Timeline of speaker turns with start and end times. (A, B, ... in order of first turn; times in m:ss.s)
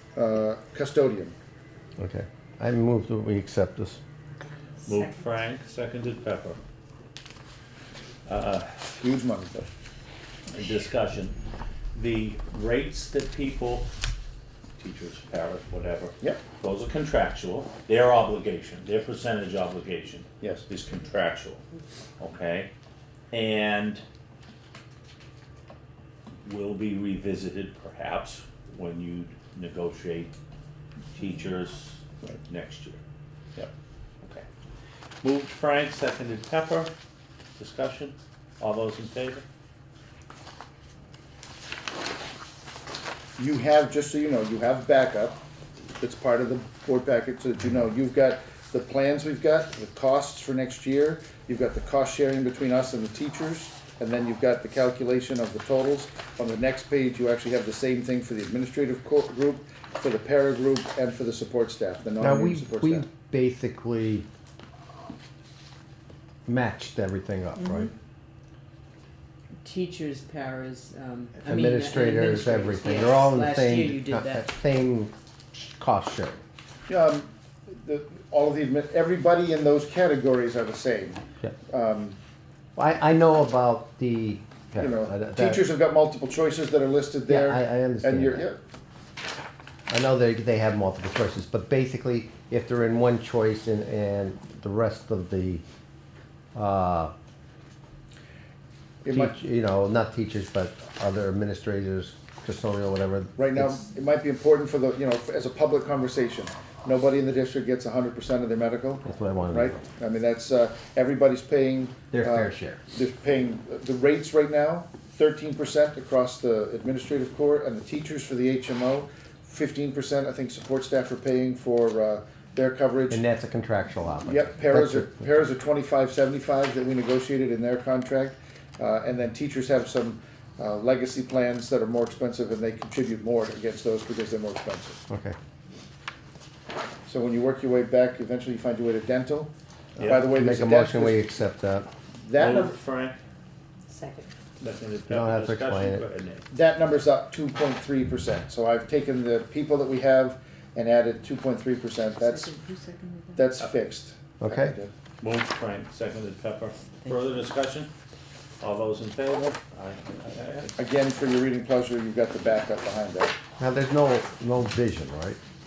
0:00.2-0:01.4 A
0:02.0-0:04.0 B
0:04.8-0:05.1 C
0:04.8-0:06.6 D
0:08.3-0:08.9 D
0:09.0-0:09.7 A
0:10.5-0:11.4 D
0:11.9-0:13.9 D
0:14.8-0:21.6 D
0:20.4-0:20.7 A
0:22.2-0:22.7 D
0:23.3-0:24.0 D
0:26.4-0:30.3 D
0:31.1-0:33.0 D
0:35.2-0:36.9 D
0:37.6-0:39.4 D
0:43.4-0:45.4 A
0:46.0-1:03.1 A
1:02.2-1:04.3 B
1:06.5-1:07.9 B
1:09.6-1:14.5 C
1:11.4-1:16.4 B
1:16.9-1:22.2 A
1:22.8-1:25.6 B
1:24.8-1:28.6 A
1:27.3-1:28.5 B
1:29.9-1:35.6 B
1:36.6-1:37.1 B
1:39.0-1:39.3 A
1:39.1-1:43.8 B
1:43.4-2:03.2 A
1:49.0-1:49.8 B
1:52.1-1:52.8 B
2:03.1-2:05.3 B
2:04.3-2:15.0 A
2:15.1-2:15.4 B
2:17.1-2:21.3 A
2:20.0-2:20.3 D
2:20.2-2:21.9 B
2:22.2-2:22.8 A
2:22.4-2:23.2 D
2:23.9-2:24.3 C
2:24.6-2:26.5 D
2:25.1-2:26.0 B
2:26.5-2:32.5 A
2:32.2-2:33.5 C
2:33.4-2:34.9 A
2:34.4-2:34.8 B
2:35.2-2:37.9 D
2:38.6-2:40.8 D
2:40.8-2:43.3 A
2:43.6-2:45.4 B